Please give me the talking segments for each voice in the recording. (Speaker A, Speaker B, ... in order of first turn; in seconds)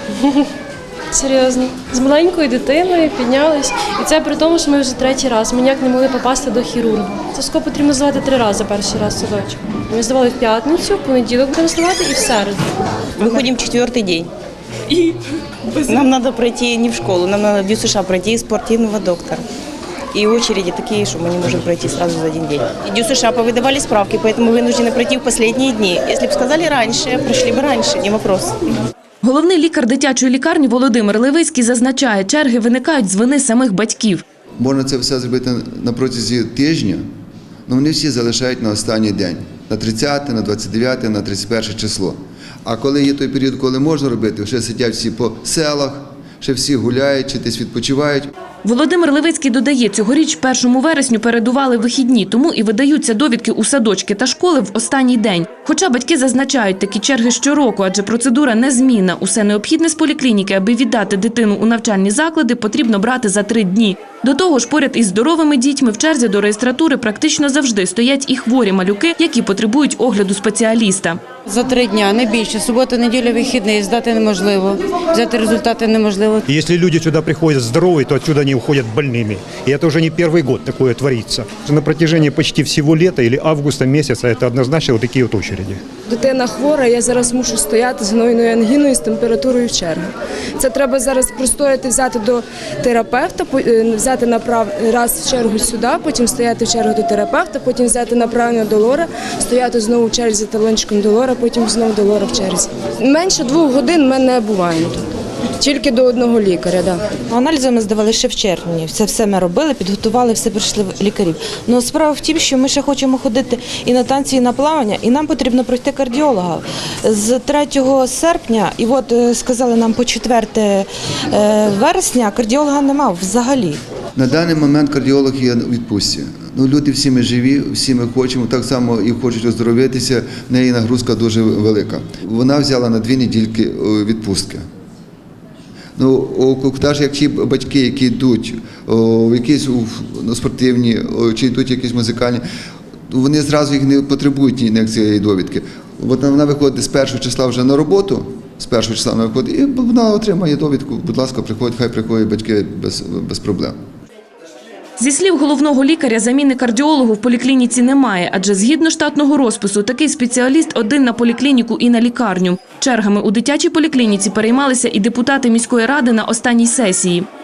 Speaker A: 1.1-12.7
Speaker B: 13.2-14.3, 15.7-19.4, 20.1-28.5
Speaker C: 29.2-34.2, 48.6-71.2, 155.0-167.3
Speaker D: 34.6-37.0, 37.7-48.3, 124.2-134.6, 136.0-142.4, 143.1-153.7
Speaker E: 71.5-76.3
Speaker F: 76.5-85.8
Speaker G: 86.1-90.1, 90.6-105.0, 105.6-107.0
Speaker H: 107.3-123.8